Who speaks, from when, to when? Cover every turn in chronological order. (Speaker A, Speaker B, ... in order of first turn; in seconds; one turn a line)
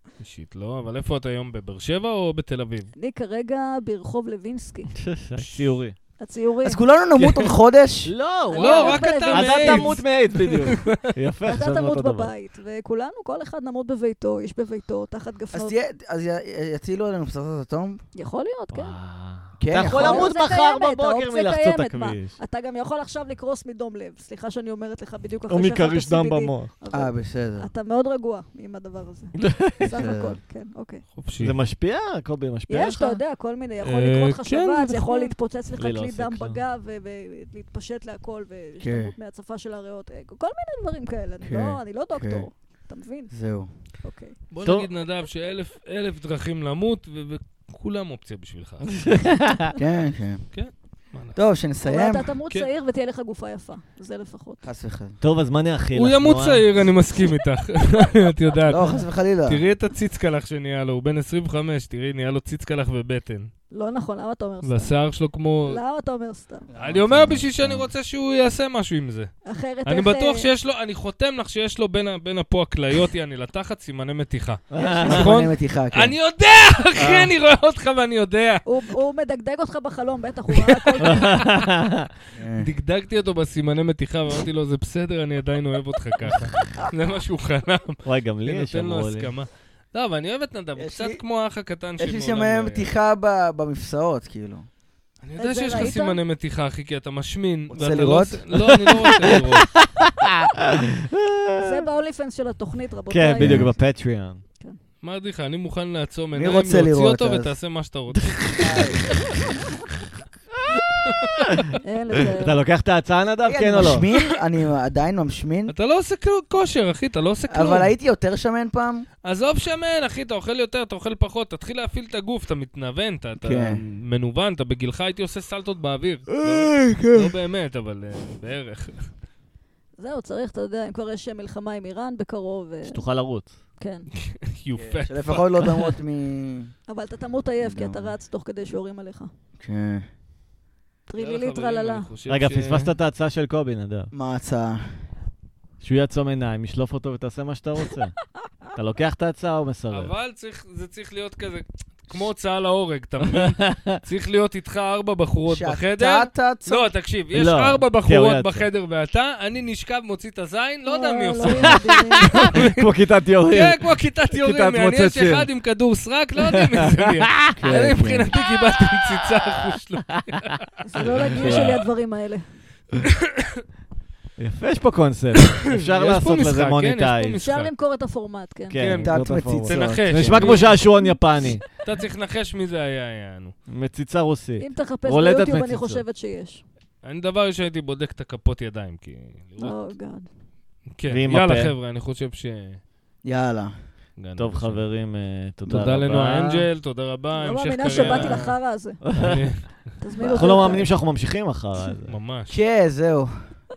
Speaker A: 0.2-2.9
Speaker B: 3.0-4.9
Speaker C: 4.9-6.0
Speaker A: 5.4-5.7
Speaker B: 6.2-6.8
Speaker D: 6.6-8.1
Speaker A: 7.2-7.5
Speaker C: 8.1-12.3
Speaker B: 8.5-10.0
Speaker A: 8.5-11.0
Speaker B: 11.5-15.8
Speaker D: 15.5-18.0
Speaker B: 18.1-19.0
Speaker C: 18.7-22.4
Speaker D: 19.6-20.3
Speaker B: 19.8-31.0
Speaker C: 25.5-26.7
Speaker D: 26.9-27.7
Speaker C: 29.4-30.0
Speaker D: 29.8-30.4
Speaker A: 31.2-31.6
Speaker C: 31.4-33.2
Speaker B: 32.7-43.3
Speaker C: 34.0-36.6
Speaker D: 38.8-39.1
Speaker D: 41.5-42.5
Speaker D: 43.3-43.7
Speaker B: 44.0-44.4
Speaker A: 44.5-49.1
Speaker C: 44.6-44.9
Speaker C: 49.0-49.7
Speaker D: 49.8-50.4
Speaker A: 50.5-51.4
Speaker D: 51.4-52.3
Speaker B: 51.9-54.6
Speaker D: 54.6-55.2
Speaker C: 55.2-56.6
Speaker A: 55.9-63.5
Speaker D: 58.7-59.6
Speaker B: 63.7-64.9
Speaker A: 64.6-65.8
Speaker B: 65.7-66.7
Speaker D: 66.7-67.9
Speaker A: 66.8-69.3
Speaker B: 69.5-70.5
Speaker A: 69.9-78.6
Speaker C: 74.7-75.3
Speaker D: 75.0-76.1
Speaker C: 77.0-77.3
Speaker B: 78.7-81.4
Speaker A: 80.5-81.4
Speaker C: 81.0-82.1
Speaker D: 82.4-82.7
Speaker A: 82.5-92.9
Speaker C: 88.0-89.3
Speaker D: 90.8-91.2
Speaker D: 92.0-94.7
Speaker A: 95.2-99.7
Speaker B: 95.4-96.2
Speaker D: 97.7-98.7
Speaker C: 99.1-101.8
Speaker B: 101.6-103.8
Speaker C: 103.1-104.4
Speaker D: 103.4-103.7
Speaker A: 105.0-108.9
Speaker D: 106.3-107.5
Speaker C: 108.1-108.9
Speaker D: 108.6-109.2
Speaker C: 111.3-111.6
Speaker B: 111.8-112.6
Speaker C: 112.2-114.1
Speaker D: 113.5-115.7
Speaker A: 113.8-114.2
Speaker A: 115.7-117.9
Speaker D: 117.5-119.1
Speaker A: 119.2-129.1
Speaker D: 123.4-123.8
Speaker D: 126.4-127.3
Speaker B: 130.0-133.0
Speaker C: 132.9-133.6
Speaker B: 133.8-134.1
Speaker A: 134.2-136.0
Speaker D: 134.8-136.7
Speaker B: 136.9-139.3
Speaker D: 137.6-138.1
Speaker D: 139.6-140.1
Speaker B: 141.1-142.1
Speaker A: 141.2-142.9
Speaker C: 142.3-144.1
Speaker D: 144.1-144.8
Speaker C: 145.8-148.2
Speaker C: 148.7-150.1
Speaker A: 149.9-162.9
Speaker C: 153.3-154.0
Speaker D: 155.5-156.9
Speaker C: 157.3-158.7
Speaker B: 160.9-162.3
Speaker C: 161.5-163.8
Speaker A: 163.4-171.8
Speaker C: 164.3-165.5
Speaker C: 166.4-167.6
Speaker D: 167.6-168.3
Speaker B: 170.8-172.4
Speaker C: 171.0-171.8
Speaker A: 173.2-173.6
Speaker C: 174.4-177.4
Speaker A: 175.4-177.7
Speaker B: 177.4-178.9
Speaker C: 178.7-181.7
Speaker A: 178.8-180.8
Speaker D: 179.0-180.6
Speaker A: 181.8-183.5
Speaker C: 183.7-186.0
Speaker B: 184.6-186.6
Speaker A: 187.0-189.9
Speaker B: 189.6-190.3
Speaker A: 191.0-192.8
Speaker C: 191.1-191.7
Speaker D: 193.2-193.7
Speaker A: 194.2-194.8
Speaker C: 194.4-196.7
Speaker A: 195.7-198.6
Speaker B: 197.4-199.0
Speaker C: 197.9-198.5
Speaker C: 199.0-199.4
Speaker A: 199.2-199.8
Speaker B: 200.0-200.9
Speaker D: 200.2-200.8
Speaker C: 200.4-202.2
Speaker A: 202.1-202.6
Speaker D: 202.5-203.3